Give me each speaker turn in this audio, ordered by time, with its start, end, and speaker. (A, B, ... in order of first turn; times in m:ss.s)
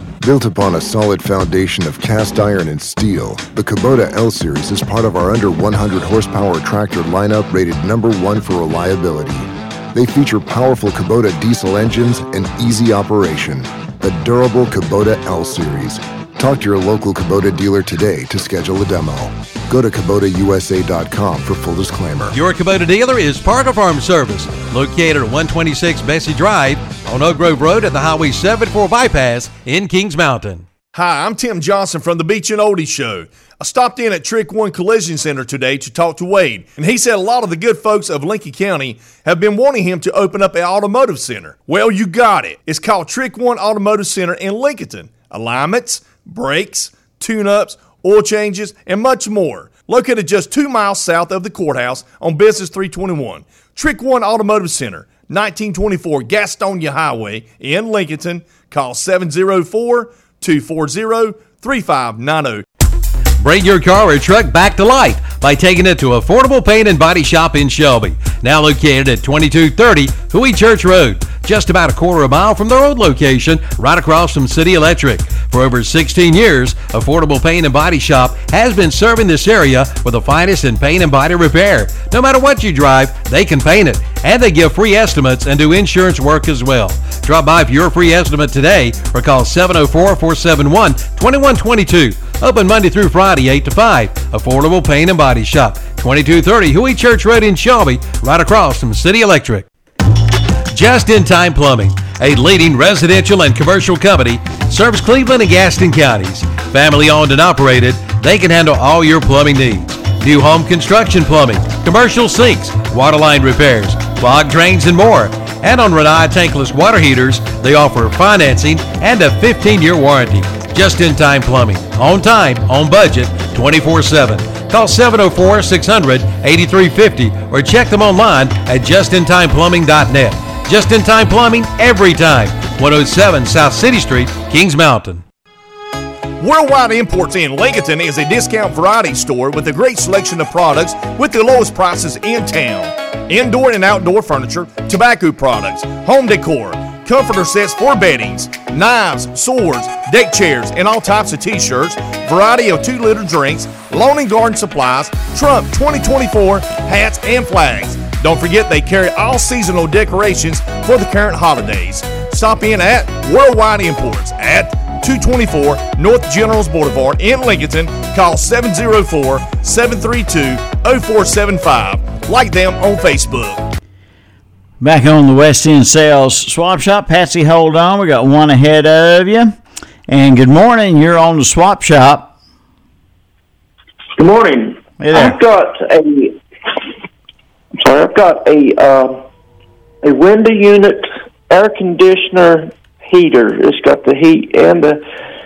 0:00.2-0:22.4 A
0:22.3-0:30.6 B
0:30.9-1:02.6 C
1:03.4-1:39.7 B
1:40.7-2:15.2 B
2:16.4-2:53.7 C
2:54.8-2:59.6 D
3:00.1-3:02.3 D
3:04.1-3:06.4 E
3:05.0-3:05.4 D
3:07.8-3:09.2 E
3:10.0-3:15.0 E